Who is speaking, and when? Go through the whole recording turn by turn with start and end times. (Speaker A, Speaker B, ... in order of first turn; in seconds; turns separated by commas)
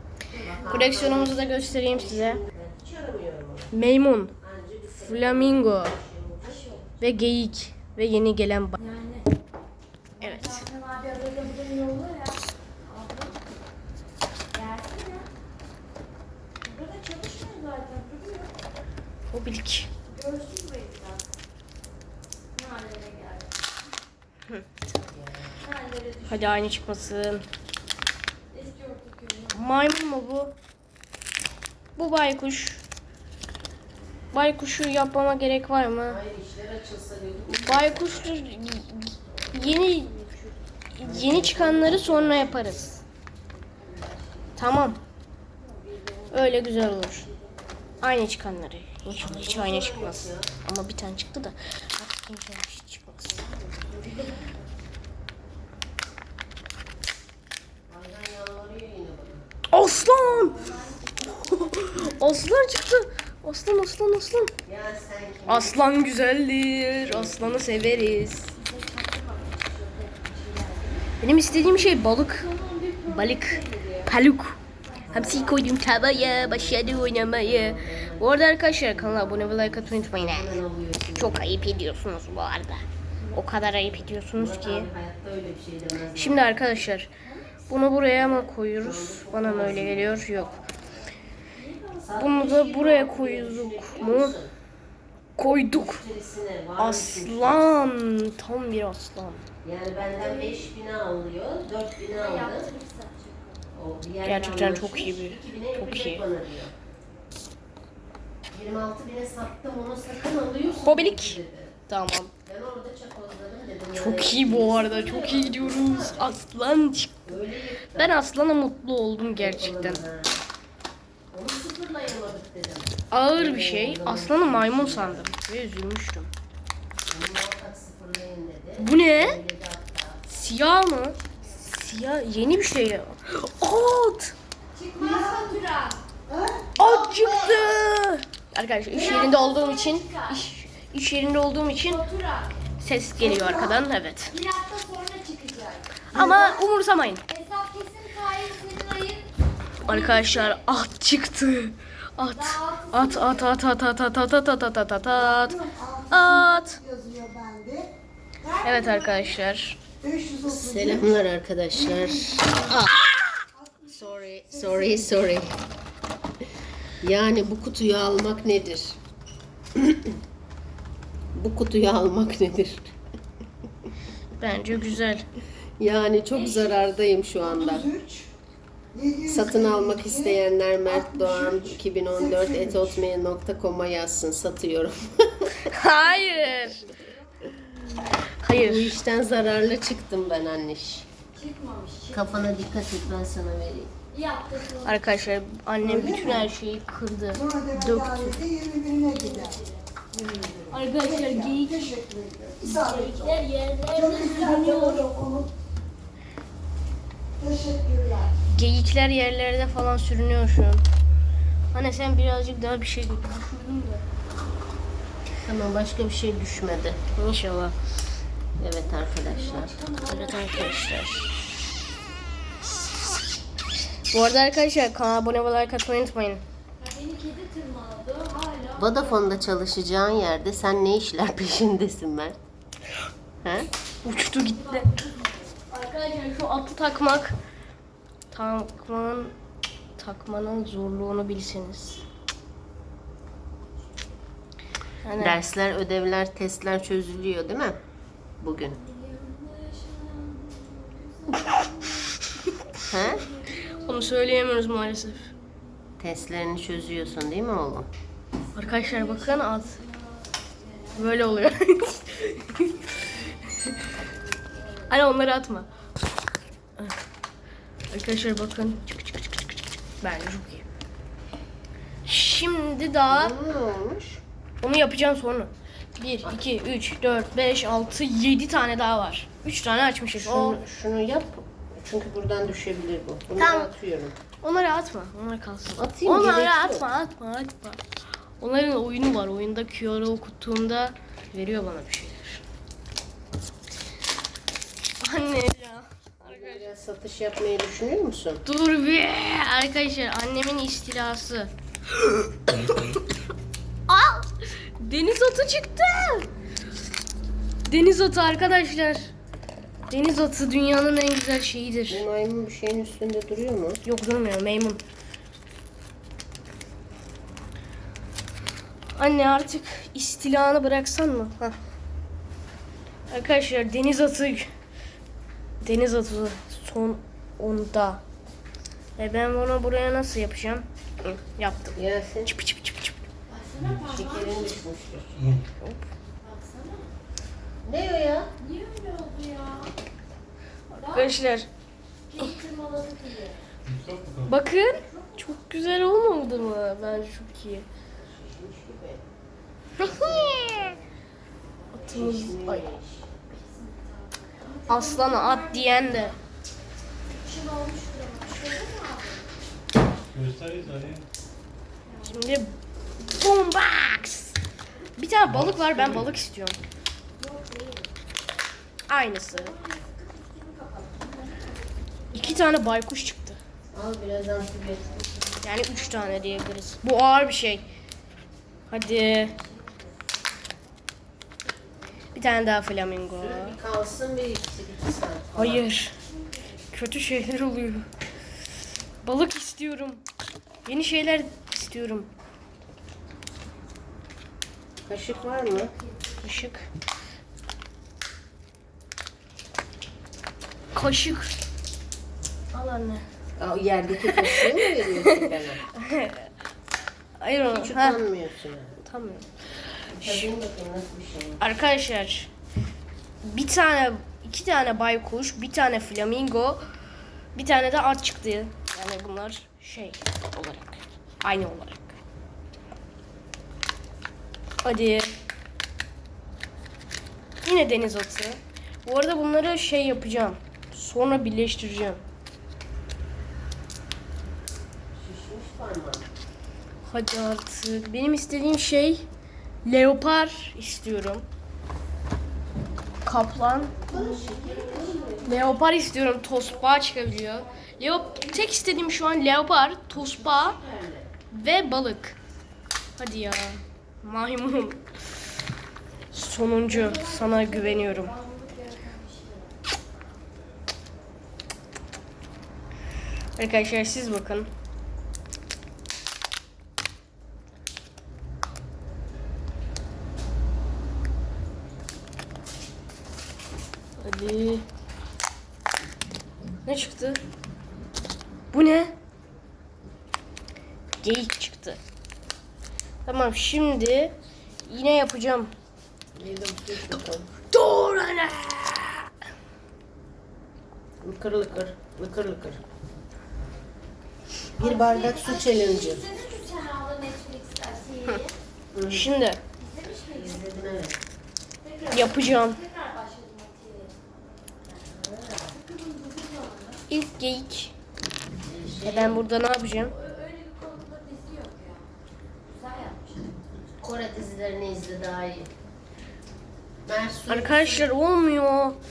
Speaker A: 0.3-0.6, Speaker B: 0.4-3.7, Speaker C: 0.7-2.4, Speaker C: 3.7-4.3, Speaker B: 4.4-7.0, Speaker C: 4.9-6.0, Speaker A: 6.4-6.8, Speaker C: 7.0-8.8, Speaker A: 8.8-9.3, Speaker A: 10.2-13.4, Speaker C: 10.2-10.6, Speaker A: 14.5-15.3, Speaker A: 16.6-18.5, Speaker C: 19.3-19.9, Speaker A: 20.1-21.2, Speaker A: 22.6-23.5, Speaker B: 24.9-25.6, Speaker A: 25.6-26.7, Speaker C: 26.3-27.4, Speaker A: 28.5-29.6, Speaker C: 29.5-30.5, Speaker C: 32.0-32.8, Speaker C: 34.3-36.2, Speaker B: 36.0-38.4, Speaker C: 37.5-43.0, Speaker B: 41.0-43.0, Speaker A: 43.9-44.4, Speaker C: 44.6-45.0, Speaker A: 45.6-47.5, Speaker C: 46.3-47.3, Speaker C: 48.0-53.4, Speaker B: 49.1-50.5, Speaker A: 53.4-54.4, Speaker B: 57.9-59.5, Speaker C: 59.7-60.6, Speaker B: 60.0-60.8, Speaker A: 60.4-61.8, Speaker C: 61.2-64.5, Speaker B: 64.7-65.8, Speaker C: 65.5-68.5, Speaker B: 67.0-68.3, Speaker A: 68.5-71.1, Speaker C: 71.2-72.5, Speaker A: 72.2-74.1, Speaker C: 73.0-74.6, Speaker A: 74.9-75.5, Speaker B: 75.1-81.6, Speaker C: 75.1-80.6, Speaker C: 81.2-84.9, Speaker B: 83.8-86.7, Speaker C: 86.2-87.1, Speaker C: 87.7-90.6, Speaker B: 88.1-90.3, Speaker A: 91.6-92.2, Speaker B: 92.0-94.5, Speaker C: 92.1-94.4, Speaker C: 95.4-96.0, Speaker B: 95.7-97.9, Speaker C: 96.8-99.4, Speaker B: 99.6-102.7, Speaker A: 100.2-100.6, Speaker A: 102.1-103.6, Speaker B: 103.7-106.7, Speaker C: 104.2-106.2, Speaker B: 108.5-111.8, Speaker C: 110.7-111.4, Speaker C: 111.9-112.3, Speaker B: 112.5-116.4, Speaker C: 113.9-117.3, Speaker B: 117.3-118.2, Speaker C: 118.0-120.0, Speaker B: 119.3-120.4, Speaker B: 121.3-125.3, Speaker C: 123.1-126.3, Speaker B: 127.1-130.2, Speaker C: 128.8-129.4, Speaker C: 130.3-134.3, Speaker A: 134.8-136.0, Speaker B: 136.8-137.8, Speaker C: 136.8-142.1, Speaker A: 138.9-140.4, Speaker A: 141.9-142.6, Speaker C: 142.8-144.4, Speaker A: 144.3-146.0, Speaker C: 146.1-147.2, Speaker A: 147.3-149.3, Speaker C: 149.8-156.8, Speaker A: 149.8-150.5, Speaker A: 152.3-153.5, Speaker D: 156.8-157.9, Speaker C: 158.6-159.8, Speaker D: 160.1-160.8, Speaker B: 160.4-163.1, Speaker B: 163.8-165.5, Speaker B: 167.0-169.0, Speaker B: 169.8-170.1, Speaker B: 171.3-172.9, Speaker C: 174.4-175.2, Speaker B: 175.8-178.0, Speaker B: 179.2-185.7, Speaker C: 185.7-187.0, Speaker C: 188.4-189.0, Speaker B: 188.5-191.1, Speaker A: 191.3-192.3, Speaker B: 192.1-193.9, Speaker A: 194.1-195.0, Speaker C: 194.8-198.7, Speaker D: 198.5-199.1, Speaker A: 199.0-199.8, Speaker C: 200.7-205.4, Speaker D: 202.0-202.5, Speaker D: 204.7-205.2, Speaker D: 207.4-208.2, Speaker C: 208.5-210.8, Speaker C: 211.7-214.0, Speaker B: 215.4-217.0, Speaker C: 217.2-217.8, Speaker B: 218.6-219.7, Speaker A: 219.2-221.4, Speaker C: 220.1-221.3, Speaker C: 224.1-226.4, Speaker A: 226.8-229.2, Speaker B: 228.8-232.4, Speaker B: 233.4-233.7, Speaker C: 234.0-234.9, Speaker A: 234.5-235.5, Speaker C: 235.7-237.3, Speaker C: 238.3-239.3, Speaker C: 240.0-242.0, Speaker C: 245.0-245.4, Speaker B: 245.2-247.8, Speaker B: 248.4-248.8, Speaker A: 248.8-252.2, Speaker B: 252.9-253.3, Speaker A: 252.9-253.9, Speaker C: 253.8-255.3, Speaker B: 256.0-257.9, Speaker C: 258.6-259.8, Speaker A: 258.6-260.0, Speaker A: 260.6-261.3, Speaker C: 260.9-262.9, Speaker C: 264.9-265.7, Speaker C: 267.9-269.4, Speaker C: 270.0-270.7, Speaker C: 272.1-273.4, Speaker B: 273.1-274.2, Speaker C: 274.6-280.6, Speaker B: 280.2-284.2, Speaker C: 283.4-283.7, Speaker C: 284.4-287.8, Speaker B: 285.8-286.9, Speaker C: 288.4-292.4, Speaker C: 295.0-296.7, Speaker B: 296.2-298.4, Speaker C: 298.5-303.0, Speaker E: 302.6-303.0, Speaker C: 303.9-304.3, Speaker C: 304.8-306.3, Speaker C: 307.7-309.1, Speaker C: 309.9-312.0, Speaker B: 311.9-313.8, Speaker C: 313.9-314.8, Speaker C: 319.0-321.6, Speaker C: 323.1-324.5, Speaker C: 325.6-328.0, Speaker C: 329.0-333.0, Speaker B: 331.8-332.3, Speaker A: 333.3-334.6, Speaker E: 333.6-333.9, Speaker B: 333.9-335.2, Speaker E: 335.2-335.4, Speaker C: 335.6-335.9, Speaker A: 336.2-336.9, Speaker B: 337.6-338.3, Speaker A: 338.4-339.7, Speaker A: 340.7-341.1, Speaker C: 340.8-341.5, Speaker A: 342.1-343.4, Speaker E: 343.7-344.4, Speaker C: 344.3-347.7, Speaker A: 344.7-345.2, Speaker B: 348.0-349.0, Speaker C: 349.8-350.8, Speaker B: 349.8-350.9, Speaker C: 351.7-352.6, Speaker B: 351.8-353.1, Speaker A: 353.4-355.8, Speaker C: 354.7-356.1, Speaker A: 357.1-359.3, Speaker E: 360.1-361.1, Speaker C: 362.0-364.4, Speaker C: 365.0-366.6, Speaker E: 365.2-366.2, Speaker A: 367.2-367.9, Speaker C: 368.9-369.5, Speaker A: 369.3-372.6, Speaker C: 372.1-373.4, Speaker B: 373.7-375.0, Speaker C: 375.4-377.6, Speaker C: 378.7-379.4, Speaker A: 379.2-379.8, Speaker C: 382.1-383.6, Speaker B: 383.1-385.7, Speaker C: 385.4-385.9, Speaker C: 386.7-387.9, Speaker C: 389.0-390.0, Speaker C: 390.7-392.1, Speaker B: 394.9-395.7, Speaker A: 395.2-396.5, Speaker C: 396.2-396.7, Speaker C: 400.8-401.3, Speaker C: 402.5-403.0, Speaker B: 403.4-405.6, Speaker C: 404.1-406.3, Speaker C: 407.2-408.0, Speaker B: 407.5-408.8, Speaker C: 408.8-409.3, Speaker B: 409.9-411.4, Speaker C: 410.0-410.3, Speaker C: 411.4-412.3, Speaker C: 413.2-416.6, Speaker C: 417.4-421.9, Speaker C: 424.6-425.1, Speaker C: 427.4-432.0, Speaker B: 435.0-436.1, Speaker C: 436.9-439.1, Speaker C: 439.6-441.2, Speaker C: 443.1-443.7, Speaker A: 443.9-445.1, Speaker B: 443.9-445.6, Speaker C: 445.2-450.6, Speaker B: 449.9-451.1, Speaker C: 451.3-452.2, Speaker C: 453.0-454.8, Speaker C: 456.1-458.1, Speaker A: 456.7-459.5, Speaker C: 463.4-464.5, Speaker C: 474.0-474.6, Speaker C: 476.7-477.2, Speaker C: 478.5-478.9, Speaker C: 481.0-481.8, Speaker C: 483.1-484.1, Speaker C: 484.7-485.5, Speaker B: 486.1-487.3, Speaker C: 487.5-489.1, Speaker B: 491.0-492.6, Speaker B: 494.6-496.1, Speaker A: 494.6-498.3, Speaker B: 498.7-499.1, Speaker C: 498.9-499.4, Speaker A: 499.6-500.4, Speaker B: 500.1-501.0, Speaker A: 501.6-504.1, Speaker C: 501.9-502.6, Speaker B: 504.7-505.6, Speaker A: 505.5-506.8, Speaker C: 506.9-507.7, Speaker B: 508.4-509.2, Speaker C: 508.8-509.9, Speaker A: 509.8-511.9, Speaker A: 512.5-513.4, Speaker B: 513.8-515.5, Speaker B: 516.9-517.9, Speaker C: 517.3-518.8